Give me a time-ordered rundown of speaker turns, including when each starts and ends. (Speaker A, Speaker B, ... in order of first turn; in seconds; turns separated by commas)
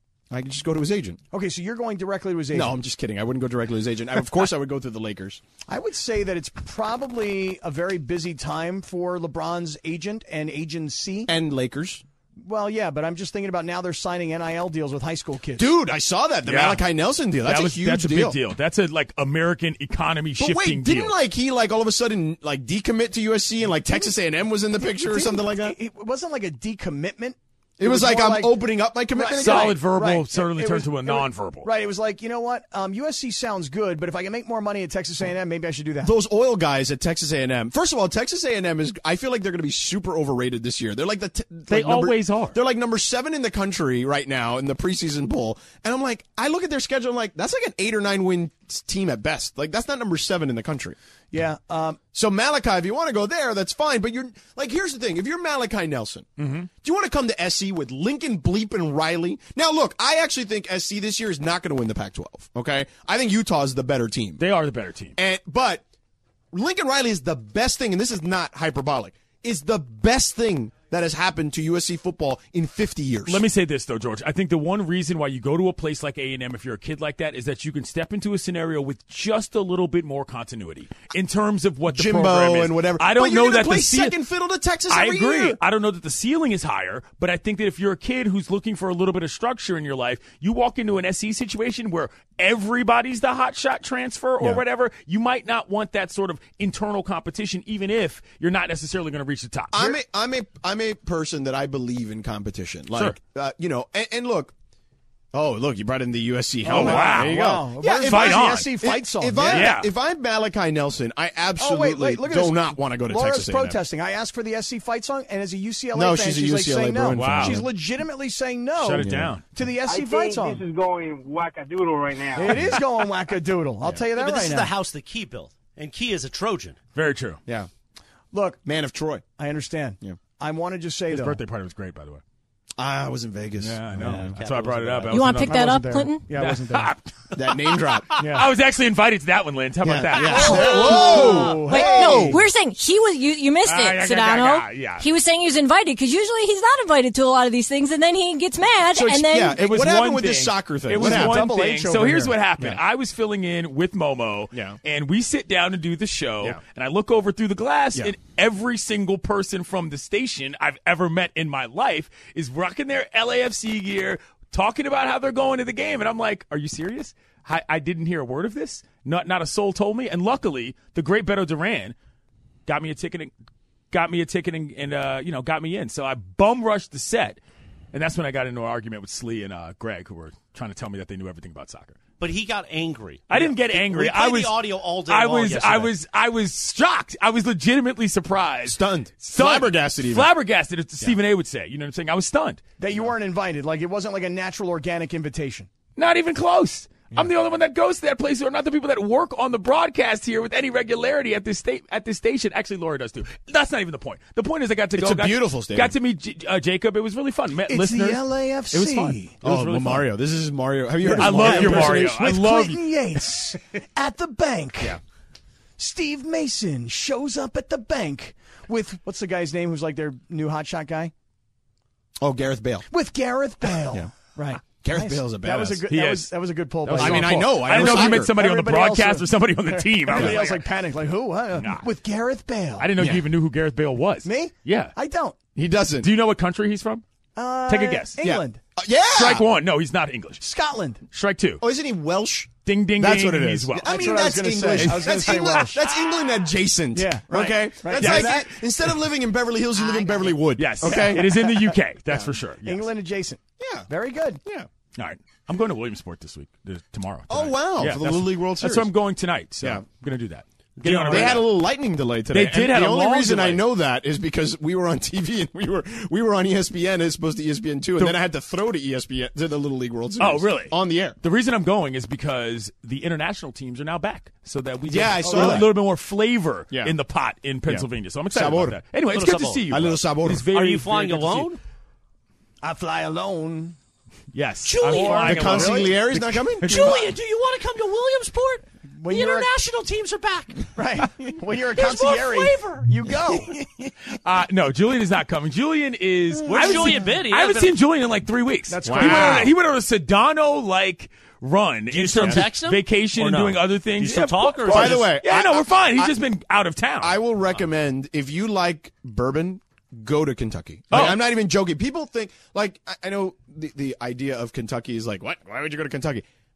Speaker A: 0.3-1.2, Speaker B: 1.3-2.8, Speaker A: 2.5-5.4, Speaker B: 5.7-11.3, Speaker A: 11.3-12.0, Speaker B: 12.4-15.7, Speaker A: 15.6-18.4, Speaker C: 16.4-16.8, Speaker C: 17.4-21.2, Speaker A: 20.4-25.8, Speaker B: 25.1-36.1, Speaker A: 27.8-29.8, Speaker C: 29.3-31.7, Speaker A: 36.0-51.0, Speaker C: 41.7-42.6, Speaker B: 51.3-52.0, Speaker A: 52.1-64.4, Speaker C: 56.4-56.7, Speaker C: 64.4-65.2, Speaker A: 65.2-65.8, Speaker A: 66.5-73.5, Speaker C: 73.3-84.2, Speaker A: 81.9-85.6, Speaker C: 84.9-100.0, Speaker A: 99.7-104.5, Speaker A: 105.3-113.8, Speaker B: 106.6-109.8, Speaker C: 106.7-108.7, Speaker C: 109.4-109.9, Speaker B: 111.6-120.6, Speaker A: 115.9-117.7, Speaker C: 117.2-117.7, Speaker C: 118.8-119.4, Speaker A: 119.0-119.3, Speaker D: 119.8-122.5, Speaker B: 122.4-124.7, Speaker A: 122.5-122.8, Speaker E: 124.1-126.8, Speaker C: 126.9-127.4, Speaker B: 128.3-128.6, Speaker A: 128.6-129.2, Speaker B: 129.4-131.4, Speaker C: 131.1-132.2, Speaker A: 132.8-134.3, Speaker C: 133.6-141.4, Speaker E: 134.2-135.3, Speaker F: 135.1-136.3, Speaker B: 135.4-136.9, Speaker A: 137.3-138.1, Speaker B: 138.2-138.5, Speaker A: 139.8-142.4, Speaker B: 140.3-142.4, Speaker F: 140.3-149.8, Speaker C: 143.6-145.1, Speaker A: 148.9-151.5, Speaker C: 149.0-171.9, Speaker B: 150.9-152.4, Speaker A: 154.5-154.8, Speaker C: 172.7-173.3, Speaker C: 173.9-177.4, Speaker C: 177.9-182.0, Speaker E: 182.2-185.9, Speaker C: 183.3-192.6, Speaker A: 188.7-190.3, Speaker B: 192.8-195.7, Speaker C: 196.0-210.1, Speaker A: 205.0-206.0, Speaker B: 207.7-209.4, Speaker A: 209.4-212.2, Speaker B: 211.0-215.0, Speaker C: 211.2-212.9, Speaker B: 215.8-221.1, Speaker A: 222.2-222.9, Speaker B: 222.9-232.9, Speaker A: 224.8-225.9, Speaker C: 225.9-230.7, Speaker A: 227.0-228.4, Speaker A: 230.1-230.4, Speaker C: 231.6-231.9, Speaker C: 232.8-234.9, Speaker A: 233.0-233.3, Speaker B: 234.2-235.4, Speaker A: 235.6-236.1, Speaker C: 236.0-237.0, Speaker B: 237.4-238.6, Speaker C: 237.7-238.2, Speaker A: 238.2-239.5, Speaker C: 239.1-240.4, Speaker B: 240.4-241.0, Speaker C: 241.1-241.6, Speaker A: 241.6-251.5, Speaker C: 242.6-245.4, Speaker B: 243.8-245.8, Speaker B: 246.9-248.5, Speaker C: 247.4-248.9, Speaker C: 250.5-252.9, Speaker B: 250.8-251.8, Speaker B: 252.6-254.4, Speaker A: 253.6-253.9, Speaker C: 254.9-261.6, Speaker A: 257.3-258.9, Speaker A: 259.6-259.9, Speaker E: 260.8-261.4, Speaker A: 261.0-271.2, Speaker C: 262.3-263.7, Speaker C: 270.2-281.5, Speaker A: 274.9-275.8, Speaker B: 275.2-275.7, Speaker A: 276.7-277.0, Speaker A: 277.7-278.8, Speaker E: 279.1-279.7, Speaker A: 279.7-280.5, Speaker E: 280.5-281.6, Speaker B: 282.6-283.8, Speaker C: 284.3-287.1, Speaker E: 284.6-285.3, Speaker B: 284.9-286.0, Speaker A: 285.1-287.0, Speaker E: 286.6-290.7, Speaker B: 288.9-289.5, Speaker B: 290.8-293.5, Speaker E: 291.8-292.9, Speaker E: 293.6-293.9, Speaker C: 294.2-307.2, Speaker E: 296.5-297.8, Speaker B: 296.5-297.1, Speaker B: 298.7-299.5, Speaker A: 298.9-299.5, Speaker E: 301.9-302.9, Speaker A: 302.2-302.5, Speaker A: 303.2-303.6, Speaker E: 304.0-305.2, Speaker A: 304.6-306.2, Speaker A: 307.0-316.2, Speaker C: 310.9-311.3